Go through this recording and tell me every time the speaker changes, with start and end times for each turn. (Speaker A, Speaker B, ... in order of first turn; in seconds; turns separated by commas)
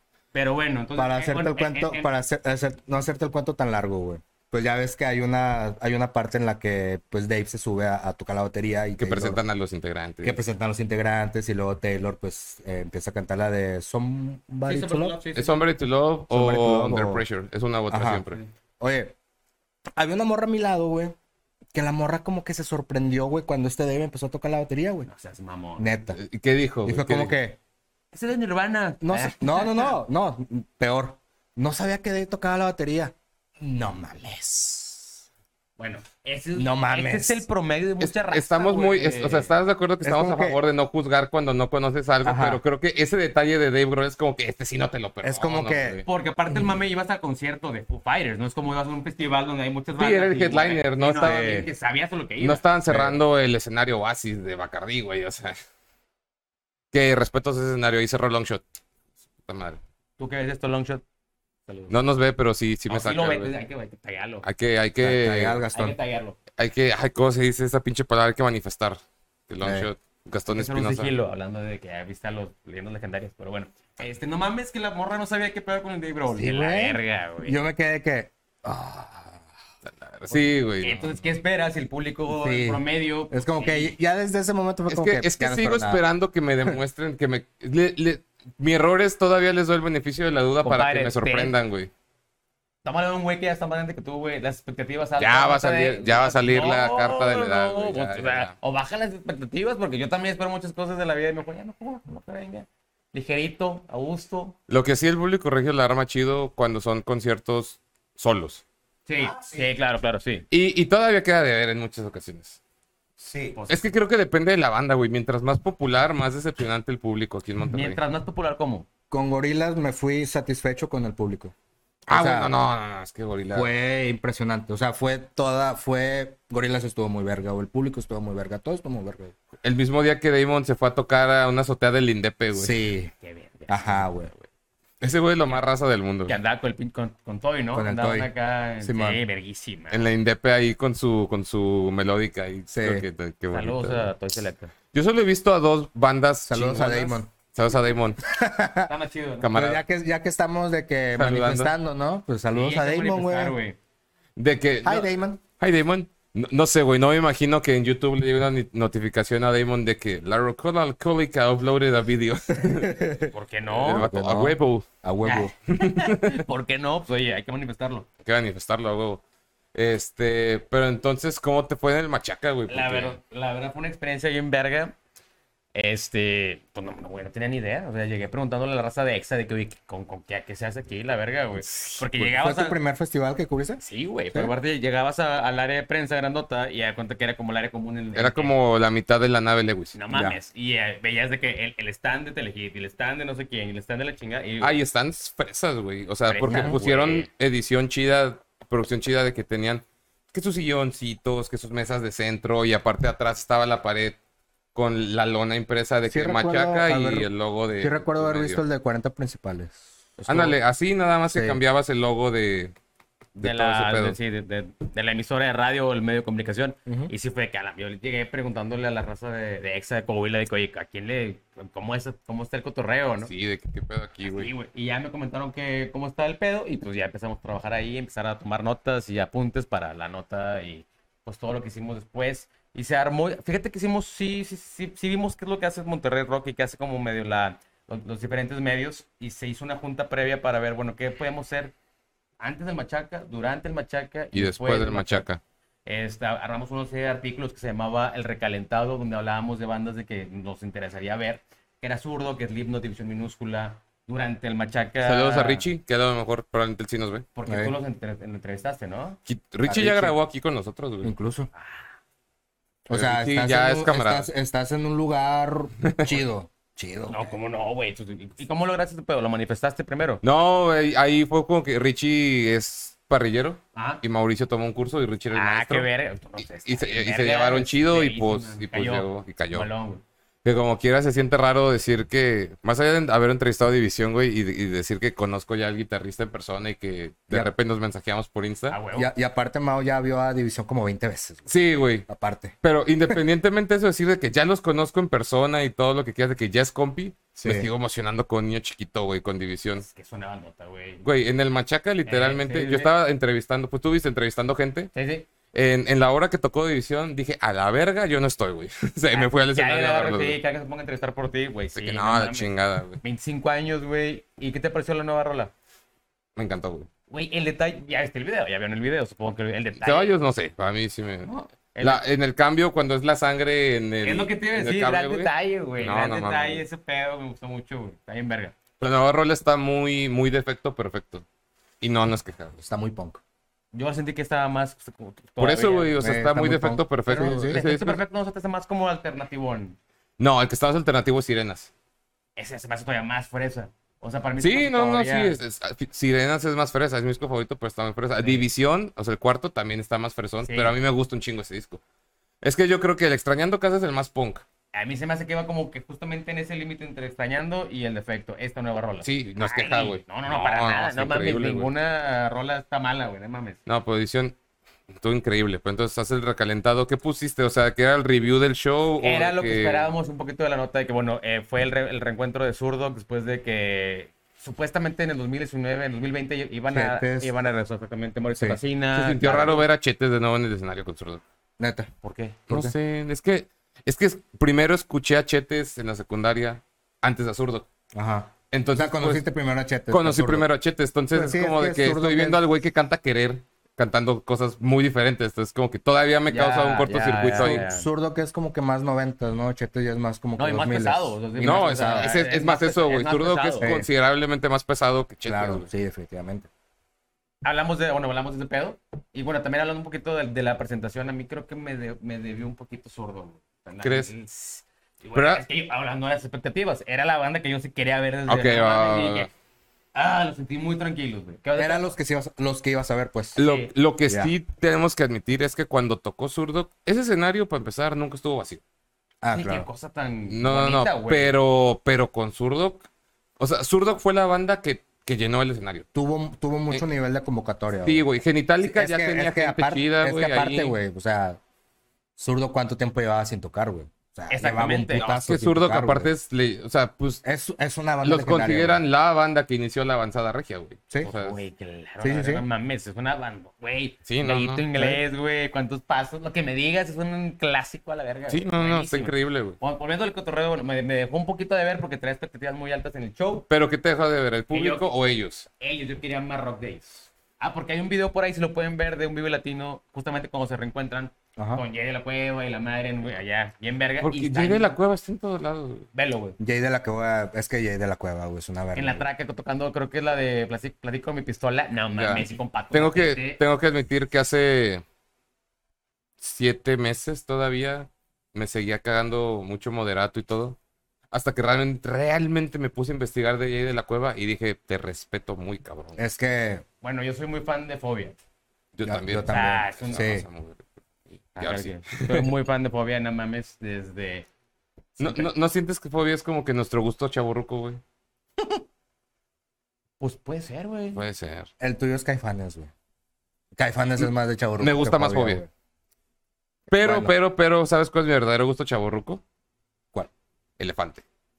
Speaker A: 0.3-2.2, Speaker B: 1.0-9.4, Speaker C: 9.0-10.4, Speaker B: 10.2-15.2, Speaker A: 14.7-15.6, Speaker C: 15.3-18.4, Speaker B: 16.3-17.2, Speaker B: 17.9-18.2, Speaker B: 18.8-19.1, Speaker B: 20.0-21.1, Speaker B: 21.7-25.1, Speaker A: 25.1-26.0, Speaker B: 25.8-26.2, Speaker C: 26.1-27.3, Speaker B: 26.8-27.6, Speaker A: 28.1-30.0, Speaker B: 29.0-35.2, Speaker A: 35.8-39.5, Speaker B: 36.5-37.4, Speaker C: 38.0-46.0, Speaker B: 40.0-40.6, Speaker B: 42.2-42.6, Speaker B: 45.2-46.0, Speaker A: 46.0-52.6, Speaker C: 50.0-51.6, Speaker B: 51.2-51.7, Speaker C: 52.4-55.6, Speaker B: 52.9-53.2, Speaker C: 56.9-58.6, Speaker C: 59.5-59.8, Speaker A: 60.2-61.0, Speaker A: 61.7-62.0, Speaker C: 61.9-63.5, Speaker A: 62.9-64.5, Speaker C: 64.4-65.6, Speaker B: 65.0-66.0, Speaker A: 65.7-66.4, Speaker C: 66.6-71.1, Speaker B: 69.6-69.9, Speaker A: 70.5-77.6, Speaker B: 76.3-79.4, Speaker C: 79.8-81.2, Speaker A: 80.3-83.9, Speaker B: 82.3-86.0, Speaker C: 84.9-91.9, Speaker A: 90.6-91.5, Speaker A: 92.8-104.5, Speaker C: 95.2-98.5, Speaker C: 104.7-108.6, Speaker A: 109.1-110.5, Speaker B: 109.2-109.6, Speaker C: 110.5-112.6, Speaker B: 113.2-113.5, Speaker A: 113.5-113.9, Speaker C: 113.7-118.0, Speaker A: 117.7-118.9, Speaker B: 119.1-121.5, Speaker B: 122.1-122.5, Speaker C: 122.1-123.7, Speaker B: 123.5-129.3, Speaker C: 129.6-132.8, Speaker B: 132.5-133.1, Speaker A: 133.2-134.5, Speaker B: 133.7-134.3, Speaker C: 135.0-136.4, Speaker A: 136.3-140.1, Speaker B: 137.7-138.3, Speaker B: 138.8-139.2, Speaker C: 139.9-144.1, Speaker B: 142.7-143.0, Speaker A: 143.5-144.7, Speaker C: 144.9-148.2, Speaker B: 146.5-147.3, Speaker B: 148.2-148.9, Speaker A: 148.9-149.5, Speaker C: 149.4-149.8, Speaker B: 149.5-153.6, Speaker C: 151.2-151.7, Speaker A: 152.5-153.8, Speaker C: 154.3-162.9, Speaker B: 154.8-155.4, Speaker B: 162.6-163.3, Speaker A: 163.3-164.1, Speaker C: 163.7-164.9, Speaker B: 163.8-165.5, Speaker A: 165.2-168.1, Speaker C: 165.7-166.4, Speaker C: 168.2-169.2, Speaker C: 169.7-173.2, Speaker A: 172.7-174.9, Speaker A: 175.7-182.8, Speaker B: 182.2-183.8, Speaker A: 183.8-188.5, Speaker C: 188.2-190.0, Speaker A: 189.9-194.8, Speaker B: 190.1-190.4, Speaker C: 194.6-204.2, Speaker A: 196.3-197.3, Speaker B: 196.4-196.8, Speaker C: 204.7-208.6, Speaker B: 206.1-209.8, Speaker A: 210.2-210.6, Speaker C: 210.3-212.7, Speaker B: 211.3-211.6, Speaker C: 213.3-214.2, Speaker A: 213.4-223.3, Speaker B: 216.9-217.1, Speaker C: 223.2-224.5, Speaker A: 224.2-241.7, Speaker A: 242.4-245.2, Speaker C: 244.3-245.4, Speaker A: 245.8-255.7, Speaker C: 255.0-257.2, Speaker A: 257.3-259.2, Speaker B: 257.5-257.7, Speaker C: 259.3-261.1, Speaker B: 259.6-260.1, Speaker B: 261.0-261.5, Speaker A: 261.6-261.8, Speaker B: 262.9-267.3, Speaker C: 262.9-264.3, Speaker C: 265.8-266.2, Speaker A: 267.1-270.2, Speaker C: 270.2-275.9, Speaker A: 273.7-274.0, Speaker A: 275.3-280.0, Speaker C: 276.6-279.7, Speaker C: 280.4-288.8, Speaker A: 288.7-289.1, Speaker B: 288.9-291.5, Speaker C: 291.5-292.1, Speaker B: 292.1-292.5, Speaker C: 292.6-299.8, Speaker B: 297.4-297.7, Speaker A: 299.8-301.0, Speaker C: 301.0-304.9, Speaker A: 302.0-302.9, Speaker A: 304.9-305.3, Speaker C: 305.5-310.4, Speaker A: 309.1-315.5, Speaker C: 311.7-313.0, Speaker C: 316.4-316.9, Speaker A: 317.1-320.1, Speaker C: 319.8-326.6, Speaker A: 321.2-322.0, Speaker A: 324.0-328.6, Speaker C: 328.8-331.2, Speaker C: 331.8-332.5, Speaker B: 332.6-333.2, Speaker A: 333.7-335.9, Speaker C: 335.4-338.0, Speaker B: 336.0-337.6, Speaker A: 337.3-339.8, Speaker C: 340.2-341.7, Speaker A: 342.4-345.4, Speaker C: 344.4-351.8, Speaker A: 350.4-350.7, Speaker C: 352.4-354.4, Speaker A: 354.7-363.6, Speaker C: 359.0-361.7, Speaker C: 363.6-364.4, Speaker C: 364.9-369.9, Speaker A: 369.0-379.7, Speaker B: 376.7-377.3, Speaker C: 378.9-381.2, Speaker B: 381.6-381.9, Speaker A: 382.0-382.5, Speaker C: 382.5-387.6, Speaker B: 387.9-390.5, Speaker C: 388.5-389.2, Speaker C: 389.9-397.6, Speaker B: 391.1-392.4, Speaker A: 396.3-397.9, Speaker B: 397.3-402.1, Speaker A: 400.4-403.7, Speaker C: 401.4-405.7, Speaker B: 403.6-403.9, Speaker B: 405.2-406.5, Speaker A: 407.4-419.3, Speaker C: 413.8-414.1, Speaker C: 415.1-415.4, Speaker C: 418.3-419.3, Speaker A: 419.9-421.9, Speaker B: 421.6-423.4, Speaker A: 423.4-423.7, Speaker C: 423.4-428.6, Speaker B: 424.1-424.3, Speaker B: 429.2-429.7, Speaker A: 429.3-431.3, Speaker C: 430.3-432.8, Speaker C: 433.4-435.9, Speaker B: 435.9-438.0, Speaker C: 437.8-440.8, Speaker B: 438.6-441.4, Speaker B: 442.2-446.1, Speaker A: 444.3-445.1, Speaker C: 444.9-447.2, Speaker B: 447.2-448.8, Speaker C: 448.0-451.4, Speaker A: 451.0-463.5, Speaker B: 452.0-452.4, Speaker C: 454.1-454.6, Speaker B: 454.7-455.0, Speaker C: 458.3-459.6, Speaker C: 463.5-465.5, Speaker A: 464.5-464.9, Speaker A: 465.6-474.8, Speaker B: 471.4-471.6, Speaker C: 474.0-475.9, Speaker A: 475.9-476.4, Speaker B: 476.4-479.0, Speaker A: 478.7-483.4, Speaker C: 481.9-484.8, Speaker C: 486.2-490.6, Speaker C: 491.1-496.0, Speaker B: 496.0-496.6, Speaker A: 496.8-498.2, Speaker C: 498.7-500.7, Speaker B: 498.8-500.2, Speaker A: 499.2-500.1, Speaker A: 501.4-504.3, Speaker C: 501.4-502.3, Speaker A: 505.0-505.3, Speaker C: 505.0-507.8, Speaker A: 510.0-511.0, Speaker C: 510.9-511.5, Speaker B: 511.6-512.7, Speaker B: 513.5-515.5, Speaker C: 514.0-515.4, Speaker C: 516.7-519.2, Speaker B: 516.7-517.1, Speaker C: 520.6-521.0